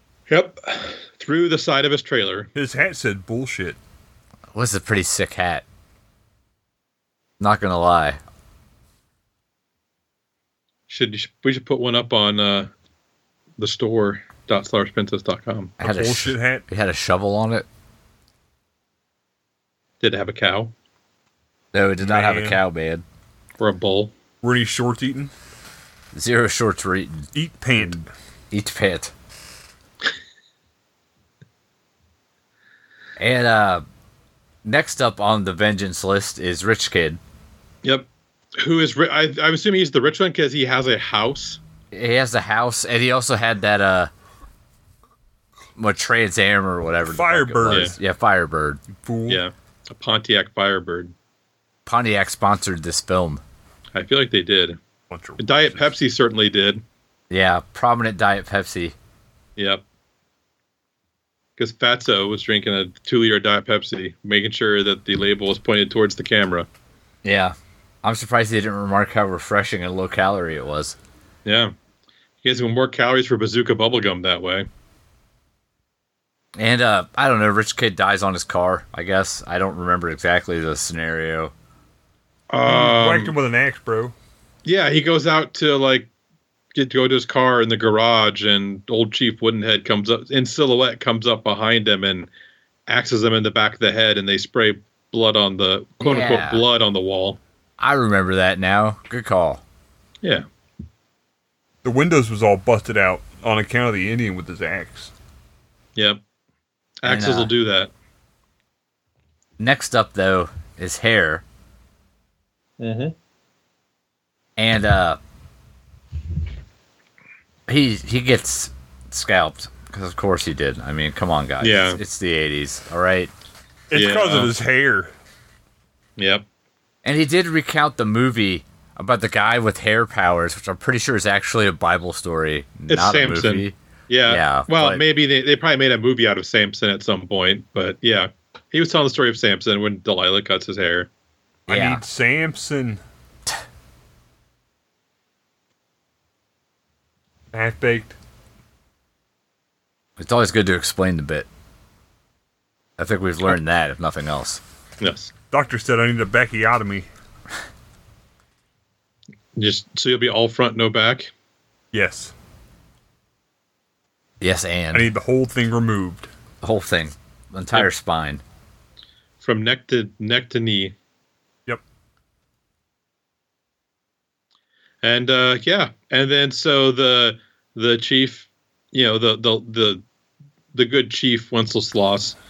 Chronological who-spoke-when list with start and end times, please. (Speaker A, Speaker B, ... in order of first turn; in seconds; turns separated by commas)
Speaker A: 0.3-2.5, Speaker B: 2.5-3.8, Speaker C: 4.5-5.6, Speaker C: 7.4-8.2, Speaker A: 10.9-12.7, Speaker A: 13.6-15.7, Speaker C: 15.8-17.6, Speaker B: 15.8-16.6, Speaker A: 20.0-20.7, Speaker C: 21.7-23.0, Speaker B: 22.0-22.6, Speaker A: 23.6-24.1, Speaker B: 24.4-25.3, Speaker C: 26.1-29.1, Speaker B: 27.3-28.1, Speaker C: 33.2-33.8, Speaker C: 34.6-37.2, Speaker A: 37.8-41.6, Speaker C: 41.9-44.1, Speaker C: 45.8-48.8, Speaker B: 47.1-47.9, Speaker B: 48.9-49.4, Speaker A: 49.3-51.1, Speaker C: 51.9-53.4, Speaker A: 53.9-54.8, Speaker B: 55.1-55.8, Speaker A: 55.4-56.8, Speaker C: 57.3-58.9, Speaker A: 59.6-59.8, Speaker A: 61.6-66.7, Speaker C: 67.2-71.0, Speaker A: 71.4-71.7, Speaker A: 72.4-74.7, Speaker C: 76.6-81.5, Speaker A: 82.5-83.3, Speaker B: 82.7-84.1, Speaker A: 84.6-86.1, Speaker A: 86.7-92.3, Speaker A: 92.9-97.4, Speaker C: 96.0-96.6, Speaker C: 97.8-99.6, Speaker B: 101.8-105.1, Speaker A: 107.0-107.9, Speaker C: 107.0-107.5, Speaker C: 109.6-111.4, Speaker A: 112.8-113.1, Speaker C: 114.6-115.2, Speaker C: 117.7-123.3, Speaker A: 121.6-122.0, Speaker B: 123.9-125.1, Speaker A: 123.9-124.5, Speaker A: 126.2-126.4, Speaker C: 127.0-133.7, Speaker A: 132.9-141.1, Speaker C: 134.3-135.0, Speaker C: 141.7-142.0, Speaker B: 141.7-143.0, Speaker B: 147.5-148.2, Speaker C: 150.2-151.5, Speaker C: 153.0-154.6, Speaker A: 155.0-155.3, Speaker B: 155.5-157.1, Speaker A: 159.6-161.3, Speaker B: 161.9-162.3, Speaker C: 164.4-165.1, Speaker B: 164.9-166.3, Speaker C: 166.6-168.4, Speaker A: 169.4-170.9, Speaker A: 175.0-180.0, Speaker A: 180.7-182.3